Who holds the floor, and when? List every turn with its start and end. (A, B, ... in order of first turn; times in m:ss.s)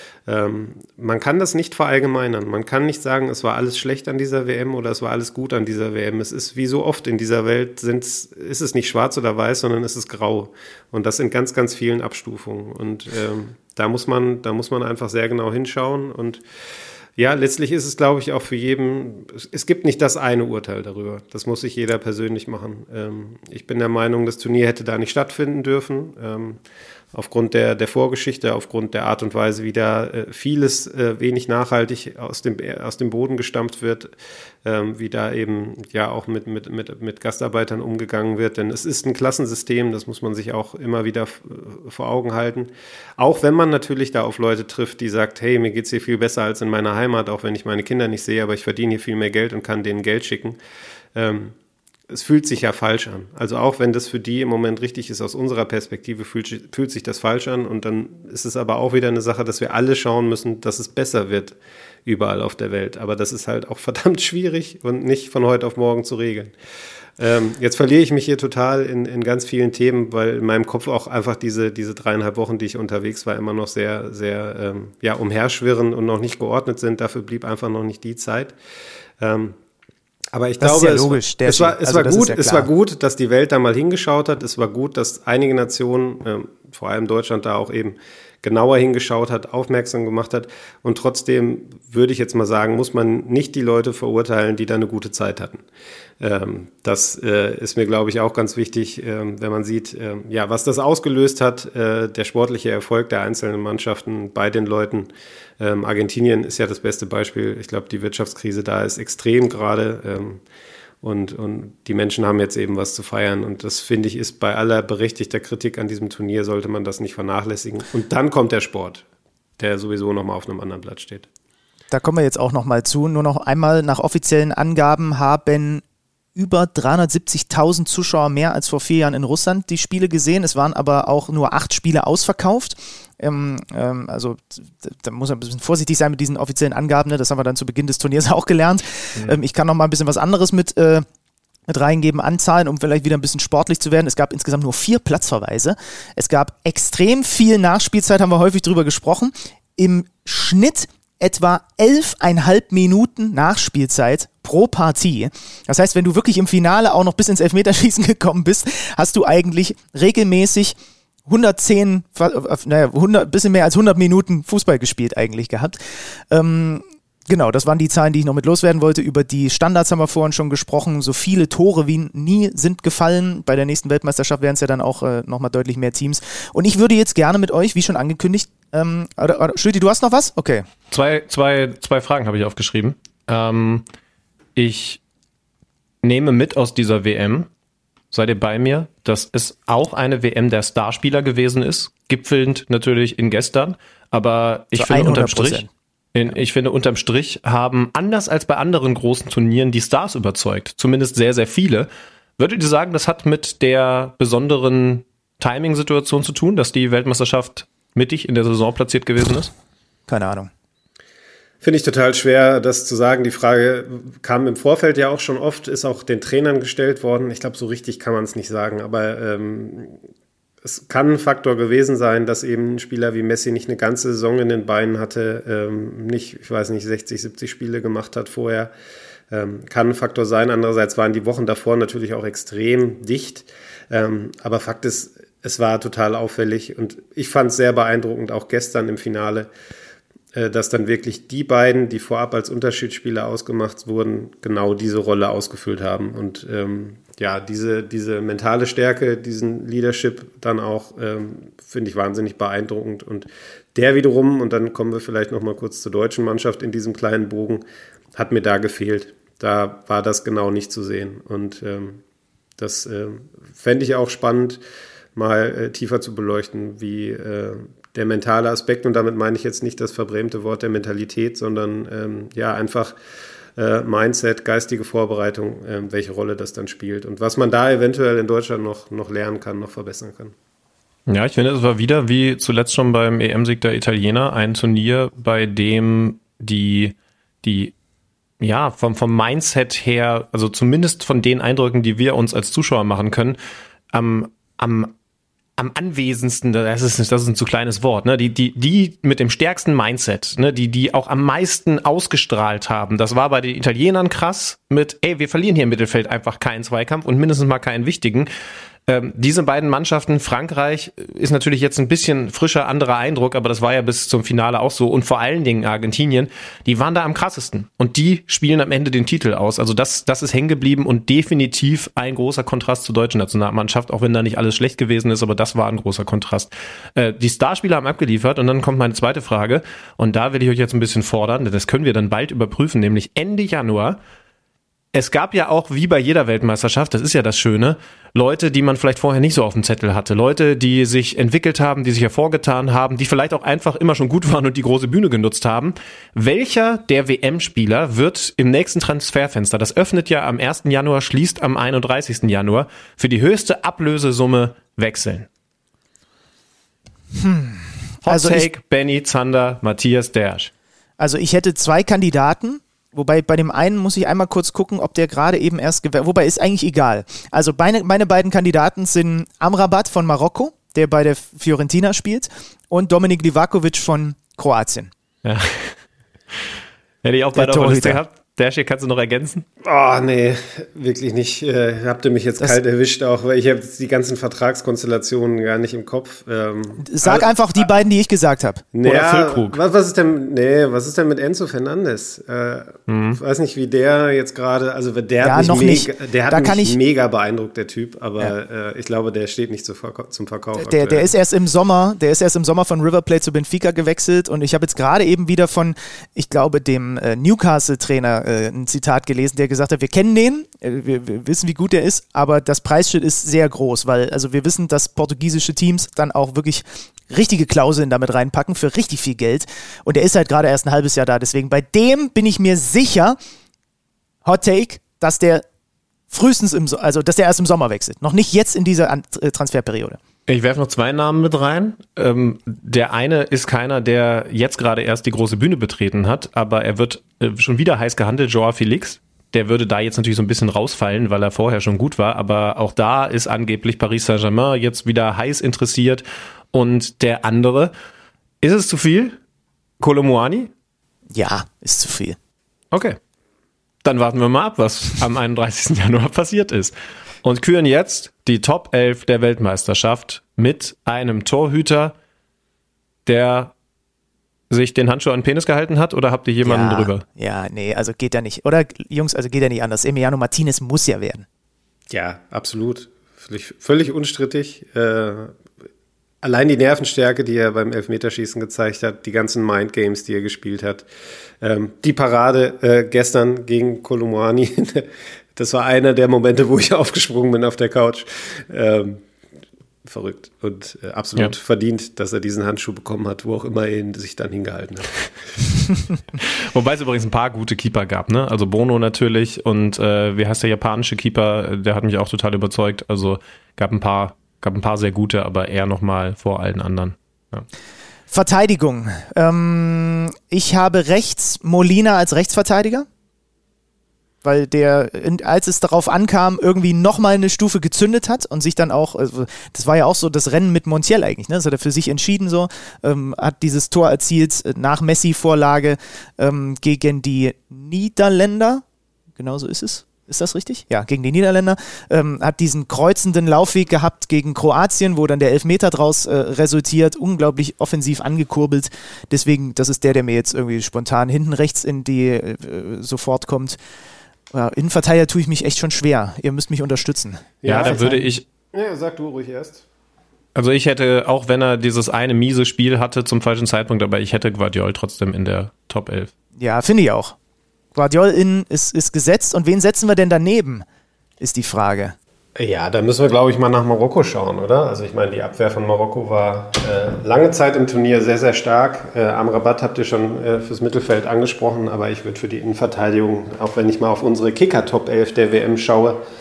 0:00.3-0:16.4 A
0:17.2-0:26.6 A
0:27.1-0:34.1 A
0:34.6-0:50.6 A
0:51.2-0:51.6 A
0:52.1-1:06.5 A
1:07.2-1:18.6 A
1:19.2-1:19.6 A
1:20.3-1:35.6 A
1:20.6-1:22.7 B
1:36.2-1:50.4 A
1:51.0-1:59.0 A
1:59.6-2:01.3 A
2:01.9-2:05.8 B
2:06.4-2:21.0 B
2:21.7-2:40.8 B
2:41.3-2:45.8 B
2:46.3-3:00.7 B
3:00.9-3:03.8 C
3:04.6-3:05.0 C
3:06.0-3:07.5 C
3:08.1-3:29.5 C
3:14.7-3:15.7 B
3:30.1-3:30.5 B
3:31.6-3:40.0 A
3:40.6-3:48.7 A
3:49.3-3:59.5 A
4:00.3-4:17.6 A
4:18.2-4:22.0 A
4:22.6-4:24.6 A
4:25.2-4:33.0 A
4:33.6-4:40.4 A
4:41.1-4:47.7 C
4:48.4-4:53.4 C
4:53.9-4:54.9 C
4:55.6-5:08.3 C
5:08.9-5:34.0 C
5:34.9-5:55.3 C
5:57.1-5:58.5 B
5:58.0-6:00.5 C
6:01.0-6:14.9 B
6:15.2-6:15.8 C
6:17.0-6:19.4 C
6:17.3-6:18.0 B
6:19.6-6:27.3 A
6:26.8-6:28.6 B
6:28.7-6:41.1 A
6:28.8-6:29.6 C
6:32.9-6:33.2 C
6:35.2-6:36.8 B
6:40.6-7:03.2 B
7:04.2-7:05.4 B
7:06.1-7:10.0 B
7:10.3-7:27.7 C
7:28.4-7:29.2 C
7:29.8-7:30.5 C
7:31.1-7:32.2 B
7:32.7-7:33.0 C
7:33.8-7:42.0 C
7:43.1-7:43.5 C
7:44.5-7:47.0 C
7:46.4-7:51.3 B
7:51.9-7:55.4 A
7:56.2-8:00.9 A
8:01.4-8:09.0 A
8:09.8-8:15.1 A
8:16.2-8:27.4 C
8:28.1-8:32.9 B
8:34.2-8:48.6 B
8:49.2-9:03.6 B
9:04.3-9:08.1 B
9:07.4-9:07.8 A
9:07.4-9:08.2 C
9:08.5-9:09.6 A
9:10.4-9:16.1 C
9:16.4-9:17.2 B
9:17.7-9:20.7 B
9:21.2-9:22.0 B
9:22.4-9:36.0 A